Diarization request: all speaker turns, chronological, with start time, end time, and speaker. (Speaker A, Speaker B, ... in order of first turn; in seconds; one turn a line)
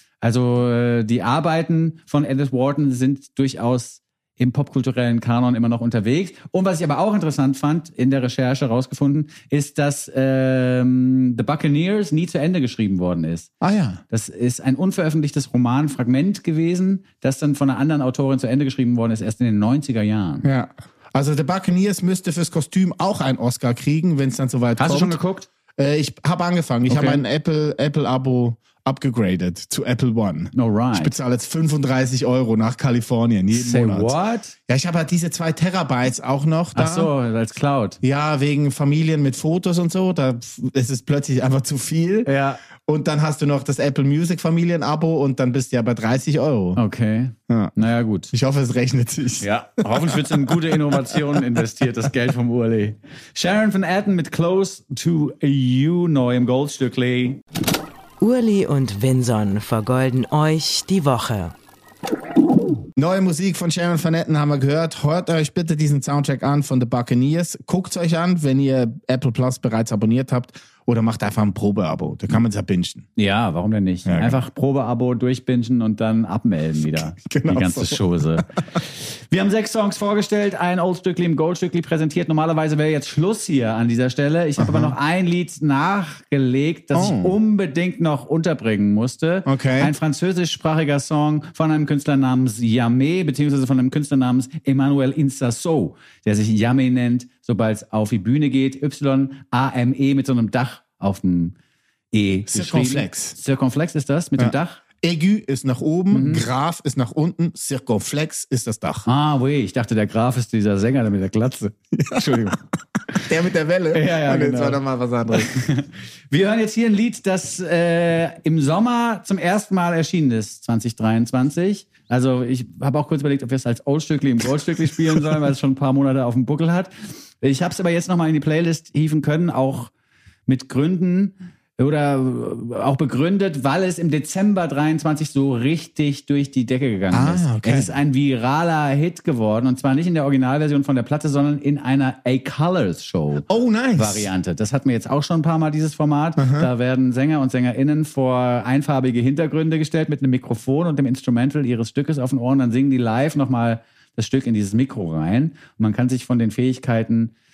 Speaker A: 0.2-13.5
Speaker B: 13.6-14.0
Speaker A: 14.1-20.4
Speaker B: 20.4-25.2
Speaker A: 24.8-25.5
Speaker B: 25.8-34.1
Speaker A: 26.9-27.2
Speaker A: 30.5-31.1
Speaker A: 33.5-34.5
Speaker B: 34.7-37.1
Speaker A: 36.7-38.0
Speaker B: 38.0-46.8
Speaker A: 42.2-42.6
Speaker A: 46.8-48.3
Speaker B: 47.5-47.8
Speaker B: 48.3-51.2
Speaker A: 49.4-57.4
Speaker C: 58.2-61.5
Speaker B: 63.0-73.1
Speaker A: 73.2-101.5
Speaker B: 74.0-74.4
Speaker B: 76.9-78.4
Speaker B: 84.6-84.9
Speaker B: 86.9-87.4
Speaker B: 89.5-89.9
Speaker A: 102.1-104.8
Speaker B: 102.5-103.3
Speaker B: 104.4-109.1
Speaker A: 106.1-106.5
Speaker A: 109.0-112.6
Speaker B: 112.0-112.5
Speaker B: 113.2-115.6
Speaker A: 113.9-126.9
Speaker A: 127.4-129.9
Speaker A: 130.5-157.3
Speaker B: 137.1-137.9
Speaker B: 143.5-144.3
Speaker B: 146.4-146.7